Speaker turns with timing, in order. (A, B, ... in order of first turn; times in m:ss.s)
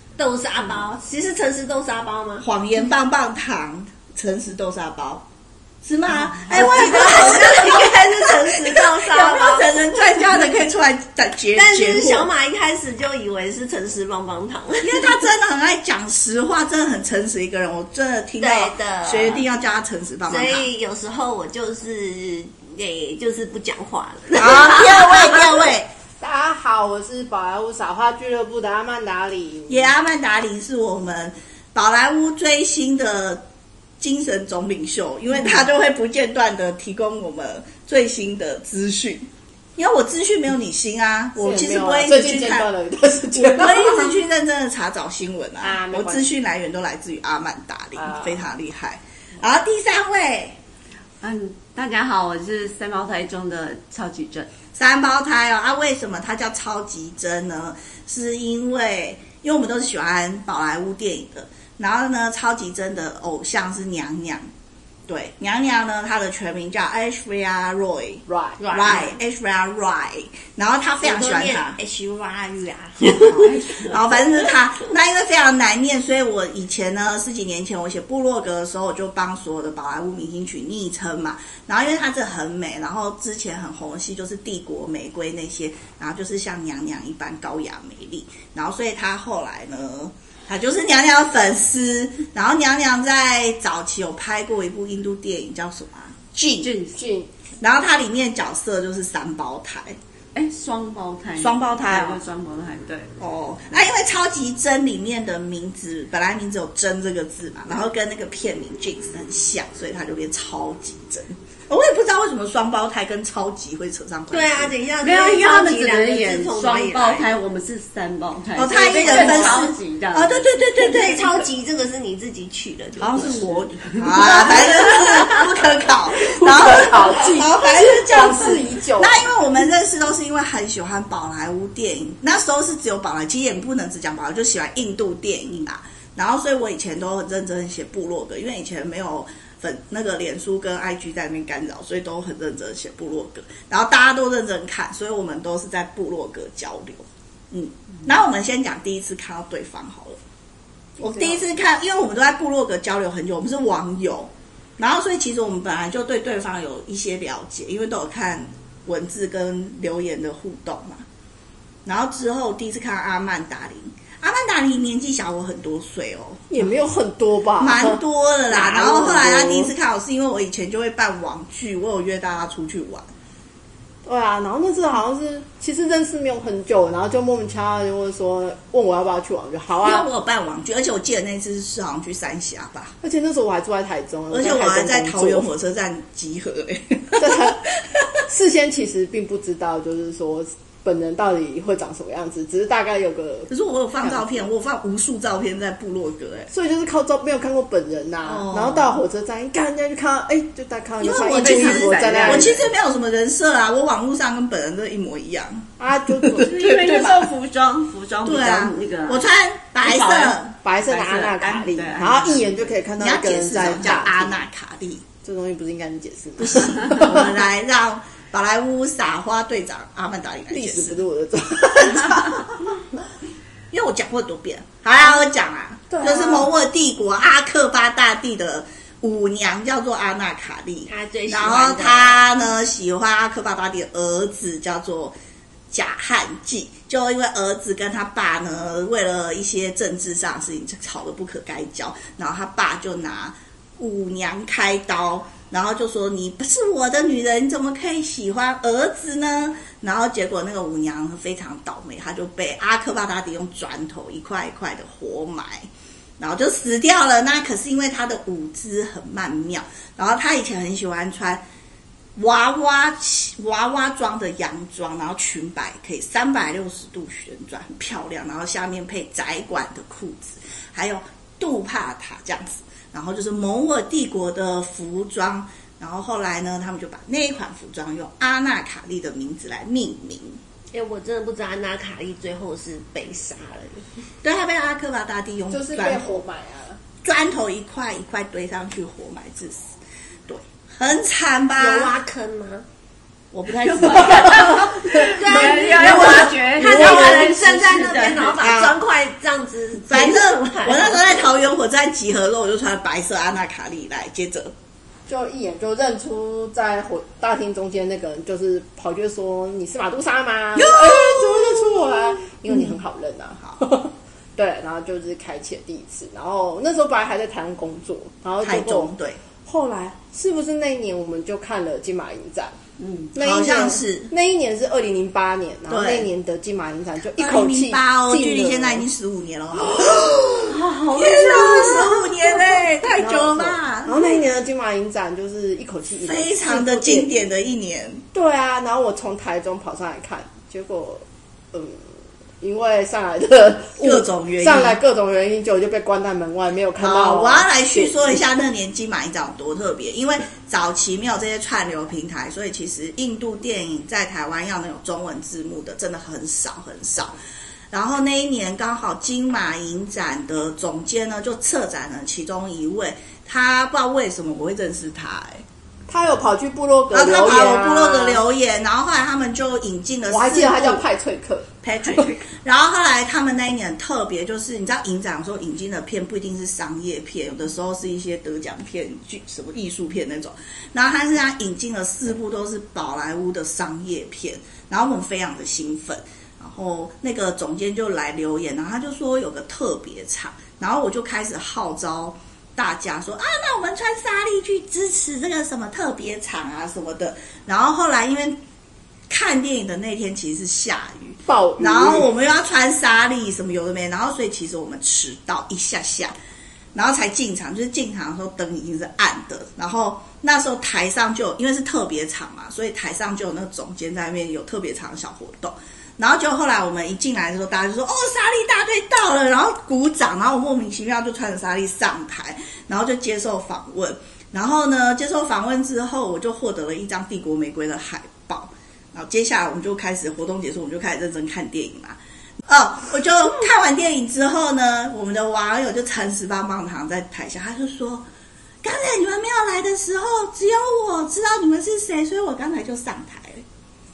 0:00.2-0:02.5 A
0:02.4-0:05.2 B
0:05.8-0:12.3 B
0:06.5-0:09.7 A
0:11.6-0:15.1 A
0:14.8-0:20.7 B
0:18.4-0:19.5 A
0:20.3-0:25.5 A
0:24.3-0:25.9 B
0:26.2-0:29.9 C
0:29.7-0:33.4 B
0:34.0-0:42.7 B
0:41.4-0:44.2 C
0:43.4-0:50.6 B
0:45.6-0:46.3 C
0:48.0-0:48.4 C
0:51.2-0:54.5 D
0:54.8-1:04.5 B
1:05.1-1:11.8 B
1:08.3-1:08.7 C
1:08.6-1:09.2 A
1:11.0-1:13.9 A
1:13.0-1:36.7 B
1:36.6-1:37.0 D
1:37.0-1:37.3 C
1:37.6-1:40.0 B
1:40.3-1:43.1 D
1:41.4-1:42.2 B
1:43.2-1:54.8 B
1:54.3-1:57.3 A
1:55.0-2:00.5 D
1:58.6-2:01.4 B
1:58.7-1:59.8 A
2:00.8-2:03.6 A
2:03.0-2:30.2 B
2:04.1-2:05.4 A
2:06.2-2:09.4 C
2:31.0-2:31.4 C
2:31.0-2:41.0 B
2:41.8-2:46.4 B
2:46.5-2:49.7 C
2:47.6-2:53.1 B
2:54.1-3:00.1 C
2:59.8-3:03.0 B
3:03.0-3:05.5 C
3:04.3-3:07.5 B
3:07.2-3:07.6 C
3:08.3-3:14.4 C
3:13.5-3:16.5 B
3:16.5-3:22.6 C
3:18.4-3:18.8 B
3:21.0-3:27.3 B
3:21.2-3:22.6 D
3:25.8-3:26.6 C
3:26.4-3:29.3 D
3:28.2-3:30.5 B
3:29.8-3:32.7 D
3:30.6-3:34.4 C
3:33.0-3:35.0 B
3:35.2-3:37.3 C
3:36.4-3:41.0 B
3:40.5-3:42.6 C
3:43.7-3:55.2 B
3:45.9-3:46.5 C
3:50.9-3:52.3 A
3:55.7-4:15.7 B
4:16.2-4:21.4 B
4:22.2-4:40.4 B
4:40.7-4:43.9 A
4:44.2-4:46.2 B
4:45.5-4:46.8 C
4:47.0-4:49.7 B
4:50.3-4:51.9 B
4:51.6-4:52.7 A
4:53.3-4:55.1 B
4:53.5-4:58.4 D
4:54.0-4:55.1 C
4:55.0-5:01.4 A
4:55.7-4:56.9 B
4:58.4-4:58.8 B
4:59.9-5:04.5 B
5:05.1-5:18.9 C
5:10.6-5:12.8 B
5:18.4-5:19.2 B
5:19.4-5:22.6 C
5:22.8-5:23.1 D
5:23.1-5:28.8 C
5:23.2-5:24.1 B
5:25.7-5:26.1 B
5:27.2-5:34.2 B
5:29.6-5:30.1 C
5:30.5-5:32.3 D
5:33.0-5:37.1 C
5:36.0-5:38.0 B
5:38.1-5:41.9 C
5:42.4-5:48.2 C
5:43.8-5:44.8 B
5:46.8-5:57.2 B
5:57.7-6:05.4 B
6:05.9-6:08.2 C
6:06.9-6:10.8 B
6:10.1-6:12.1 C
6:11.6-6:38.4 B
6:39.1-6:46.2 B
6:41.3-6:42.1 C
6:46.8-7:18.1 B
7:18.6-7:23.4 B